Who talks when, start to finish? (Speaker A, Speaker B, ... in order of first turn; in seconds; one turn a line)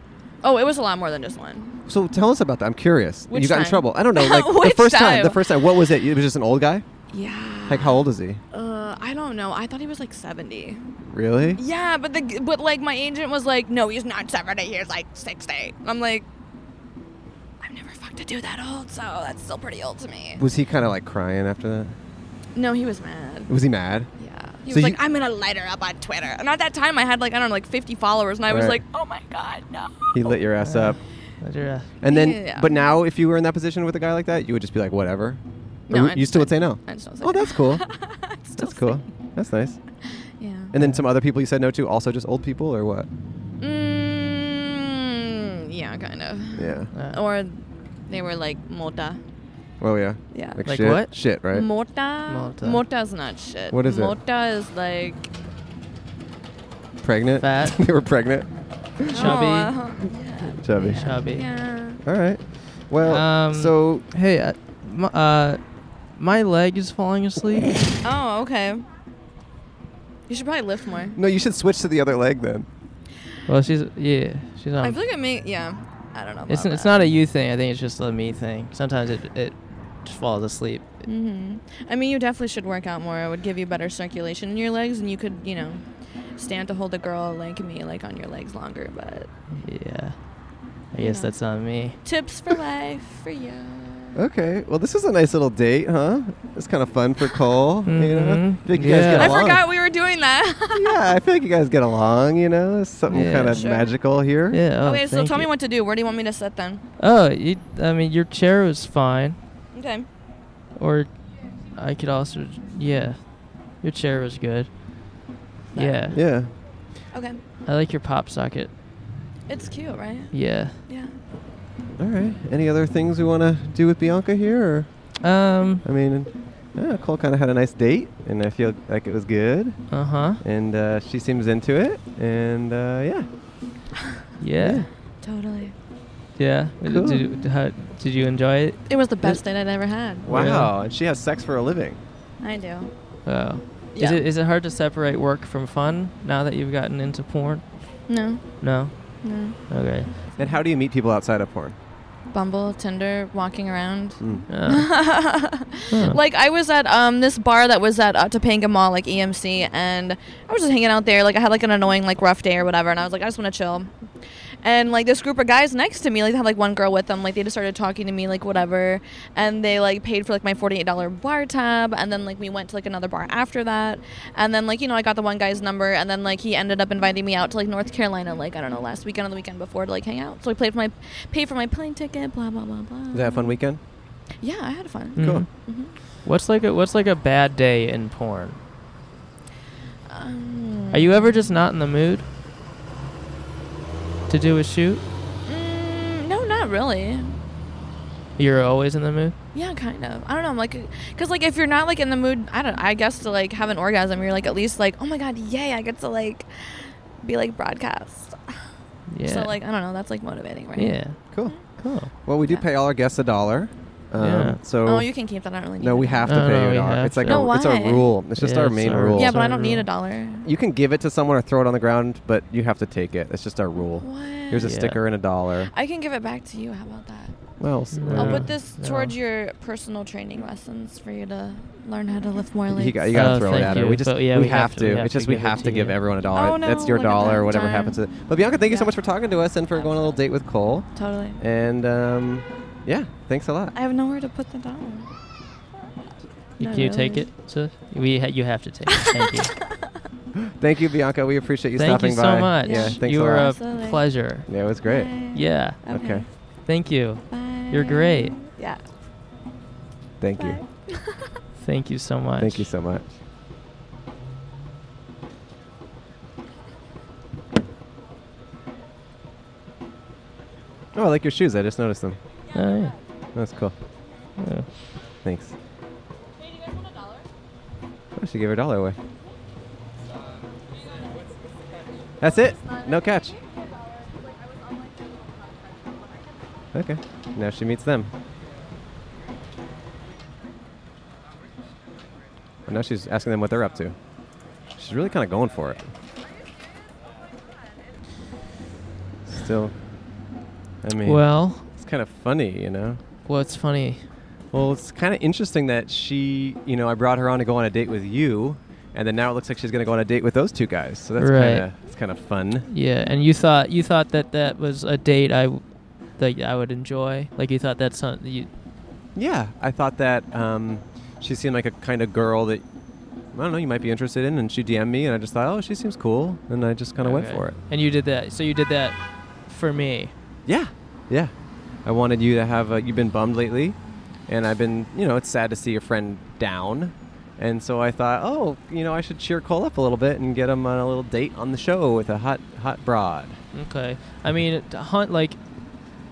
Speaker A: 0.4-1.8
Speaker B: 1.9-6.8
Speaker A: 3.3-5.9
Speaker A: 7.1-10.9
Speaker B: 7.7-8.4
Speaker B: 11.1-11.6
Speaker A: 11.6-16.3
Speaker A: 17.6-20.4
Speaker B: 20.4-22.0
Speaker A: 22.6-23.5
Speaker B: 23.5-24.1
Speaker A: 24.2-30.3
Speaker B: 24.7-25.0
Speaker B: 28.5-28.8
Speaker B: 30.1-31.0
Speaker C: 30.6-31.9
Speaker B: 32.0-37.8
Speaker A: 32.0-32.9
Speaker A: 35.9-39.1
Speaker B: 38.6-39.8
Speaker A: 40.3-40.7
Speaker B: 40.7-43.1
Speaker C: 40.7-41.0
Speaker A: 43.6-49.2
Speaker B: 46.5-46.9
Speaker C: 46.9-47.2
Speaker B: 49.8-51.7
Speaker A: 50.3-55.3
Speaker C: 50.6-51.2
Speaker C: 52.3-52.8
Speaker B: 53.7-54.2
Speaker B: 57.0-59.4
Speaker C: 57.4-57.8
Speaker A: 59.1-62.0
Speaker C: 59.1-59.8
Speaker B: 60.6-61.1
Speaker C: 60.8-61.5
Speaker B: 62.0-64.0
Speaker C: 63.0-67.9
Speaker A: 68.0-68.8
Speaker A: 70.3-71.2
Speaker B: 71.2-72.7
Speaker C: 73.5-75.0
Speaker A: 74.8-77.0
Speaker C: 76.5-80.9
Speaker A: 81.0-89.3
Speaker C: 89.5-90.2
Speaker C: 90.9-92.0
Speaker A: 91.0-91.4
Speaker A: 92.0-94.2
Speaker B: 94.2-99.7
Speaker C: 97.9-99.4
Speaker A: 99.0-101.0
Speaker B: 100.7-104.6
Speaker C: 103.1-103.7
Speaker A: 103.3-103.9
Speaker C: 104.5-105.5
Speaker A: 104.8-106.8
Speaker C: 107.0-109.4
Speaker A: 109.7-110.1
Speaker C: 110.8-111.1
Speaker C: 111.7-115.2
Speaker A: 115.7-116.2
Speaker C: 115.8-116.2
Speaker B: 116.1-116.5
Speaker A: 117.1-117.4
Speaker C: 117.7-118.7
Speaker A: 119.5-121.2
Speaker C: 120.3-120.8
Speaker B: 122.0-133.3
Speaker C: 125.2-125.8
Speaker C: 129.9-130.4
Speaker C: 134.4-134.9
Speaker B: 134.6-134.9
Speaker A: 135.2-135.8
Speaker C: 136.4-139.4
Speaker B: 136.8-137.3
Speaker A: 138.9-140.5
Speaker B: 140.2-142.0
Speaker C: 140.3-140.7
Speaker A: 142.4-142.9
Speaker C: 143.3-147.8
Speaker A: 143.9-144.2
Speaker A: 148.1-149.6
Speaker C: 148.6-150.2
Speaker B: 150.4-151.8
Speaker A: 152.3-164.1
Speaker B: 154.2-154.5
Speaker C: 154.5-154.9
Speaker C: 155.9-156.2
Speaker A: 164.6-183.6
Speaker B: 183.1-183.8
Speaker A: 184.4-185.9
Speaker C: 185.2-185.5
Speaker B: 185.2-185.5
Speaker C: 186.2-188.6
Speaker A: 190.1-191.4
Speaker C: 190.9-192.2
Speaker C: 194.3-195.0
Speaker A: 195.5-197.4
Speaker C: 198.4-199.3
Speaker A: 199.5-208.6
Speaker C: 209.1-209.6
Speaker A: 209.2-211.7
Speaker C: 210.8-211.2
Speaker C: 211.8-212.1
Speaker B: 212.1-215.1
Speaker C: 214.2-214.6
Speaker A: 214.8-216.4
Speaker B: 215.8-219.4
Speaker C: 216.3-217.5
Speaker A: 217.3-218.2
Speaker C: 218.4-219.9
Speaker A: 219.2-220.5
Speaker B: 220.4-225.7
Speaker A: 224.0-224.7
Speaker C: 224.6-225.0
Speaker A: 225.7-227.5
Speaker B: 227.6-228.5
Speaker C: 227.9-229.1
Speaker A: 228.1-233.9
Speaker B: 232.7-243.8
Speaker C: 233.1-236.0
Speaker A: 236.3-238.9
Speaker A: 239.7-240.2
Speaker A: 240.9-241.4
Speaker A: 243.8-245.1
Speaker A: 246.6-247.3
Speaker C: 246.6-249.5
Speaker A: 248.9-249.5
Speaker B: 250.4-253.6
Speaker C: 251.8-254.5
Speaker A: 252.6-254.1
Speaker B: 254.5-255.1
Speaker A: 254.8-256.3
Speaker C: 255.3-255.8
Speaker B: 255.9-256.3
Speaker C: 256.7-258.4
Speaker A: 257.3-258.8
Speaker B: 260.2-260.6
Speaker A: 260.4-261.2
Speaker C: 261.6-262.7
Speaker B: 262.4-263.1
Speaker B: 270.9-272.2
Speaker C: 272.5-272.9
Speaker B: 273.4-273.8
Speaker C: 274.4-274.7
Speaker B: 275.2-275.5
Speaker B: 278.2-279.0
Speaker B: 282.2-283.4
Speaker B: 286.7-288.1
Speaker B: 292.7-294.0
Speaker B: 294.8-295.9
Speaker B: 299.3-299.8
Speaker B: 300.8-303.0
Speaker C: 301.0-301.7
Speaker C: 303.3-304.1
Speaker B: 304.5-312.7
Speaker C: 311.2-311.7
Speaker C: 312.7-318.5
Speaker B: 319.1-322.6
Speaker B: 323.3-327.6
Speaker C: 327.0-330.1
Speaker B: 330.4-331.3
Speaker B: 331.8-343.4
Speaker C: 343.5-345.9